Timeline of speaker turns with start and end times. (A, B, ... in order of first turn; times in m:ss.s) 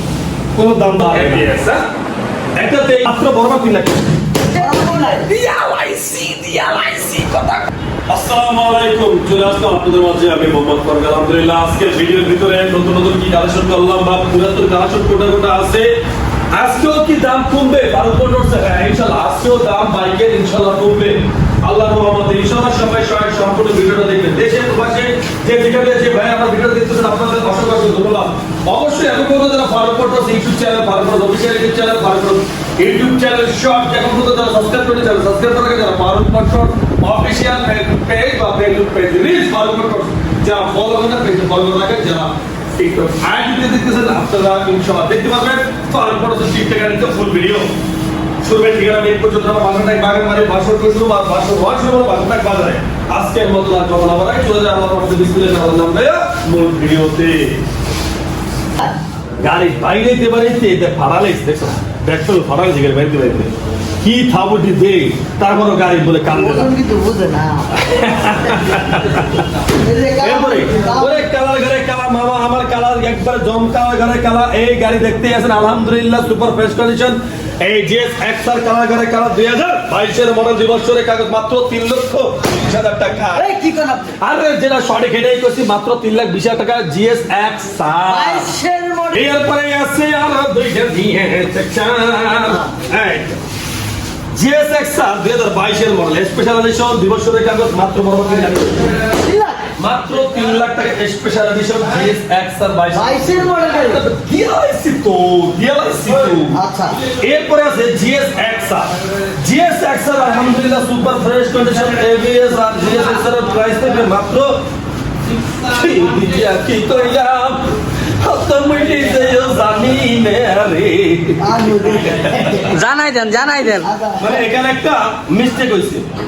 0:00.5-0:01.8 A
0:02.6-0:04.1 A
0:04.5-0:05.4 B
0:04.5-0:05.3 C
0:05.3-0:15.9 A
0:16.5-0:47.7 A
0:48.4-0:57.6 A
0:59.4-1:06.7 A
1:06.3-1:07.7 C
1:07.7-1:09.5 A
1:09.7-1:11.3 C
1:10.2-1:23.5 A
1:23.3-1:24.1 C
1:24.2-1:28.5 A
1:28.1-1:29.3 C
1:29.1-1:33.4 A
1:34.3-1:39.2 A
1:39.1-1:39.6 C
1:39.8-1:46.6 A
1:42.9-1:44.0 C
1:46.5-1:47.0 C
1:47.1-1:54.6 A
1:55.6-2:02.6 A
2:01.4-2:02.8 C
2:02.7-2:03.9 B
2:03.8-2:04.4 C
2:04.2-2:06.1 A